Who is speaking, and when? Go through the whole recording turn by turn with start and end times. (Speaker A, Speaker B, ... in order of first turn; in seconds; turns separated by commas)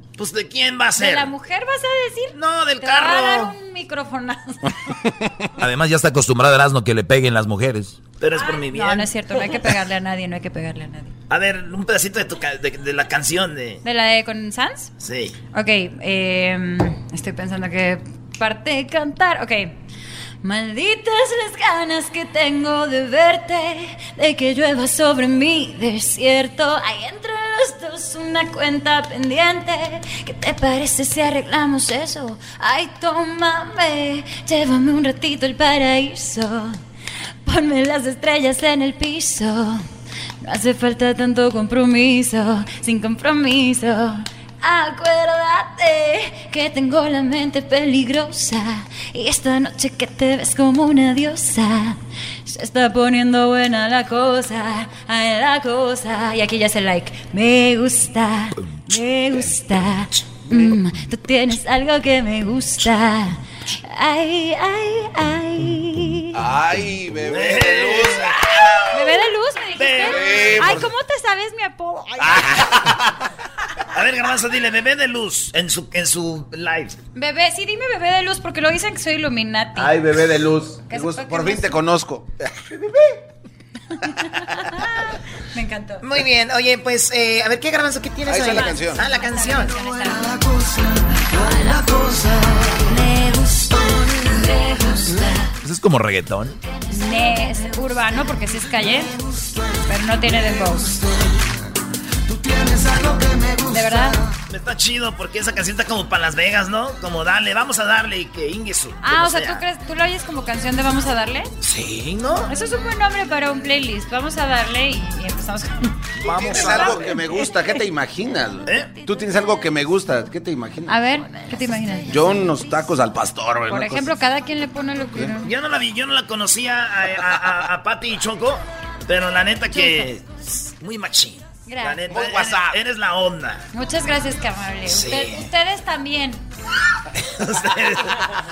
Speaker A: 0.2-1.3, Speaker B: 0.9-5.0, Speaker A: 2.3-3.5, Speaker C: 5.6-8.1, Speaker A: 8.2-9.1, Speaker B: 8.3-11.1, Speaker A: 11.3-13.8, Speaker B: 13.8-14.9, Speaker A: 15.0-15.4, Speaker B: 15.5-19.7, Speaker B: 20.4-36.8, Speaker B: 37.4-39.8, Speaker B: 40.4-66.4, Speaker D: 66.3-69.2, Speaker A: 67.3-68.4, Speaker B: 68.9-72.5, Speaker A: 69.7-70.8, Speaker D: 70.0-70.9, Speaker D: 72.2-73.1, Speaker A: 73.9-77.0, Speaker B: 77.1-80.0, Speaker D: 79.8-82.7, Speaker B: 80.9-81.8, Speaker B: 83.9-86.0, Speaker E: 86.0-89.8, Speaker D: 88.2-89.0, Speaker B: 88.4-90.5, Speaker B: 91.2-95.4, Speaker C: 95.6-96.6, Speaker B: 96.9-99.1, Speaker B: 99.8-101.0, Speaker B: 103.6-104.2, Speaker A: 104.5-109.6, Speaker B: 109.0-111.5, Speaker A: 111.6-112.5, Speaker B: 112.5-117.8, Speaker A: 116.2-117.1, Speaker D: 116.2-121.0, Speaker A: 118.7-118.9, Speaker B: 118.7-119.4, Speaker B: 120.9-122.5, Speaker D: 122.1-124.1, Speaker B: 123.7-125.5, Speaker A: 125.4-133.6, Speaker B: 129.7-130.1, Speaker B: 131.7-132.0, Speaker D: 132.1-132.8, Speaker B: 133.7-136.4, Speaker A: 135.0-135.3, Speaker A: 137.2-138.3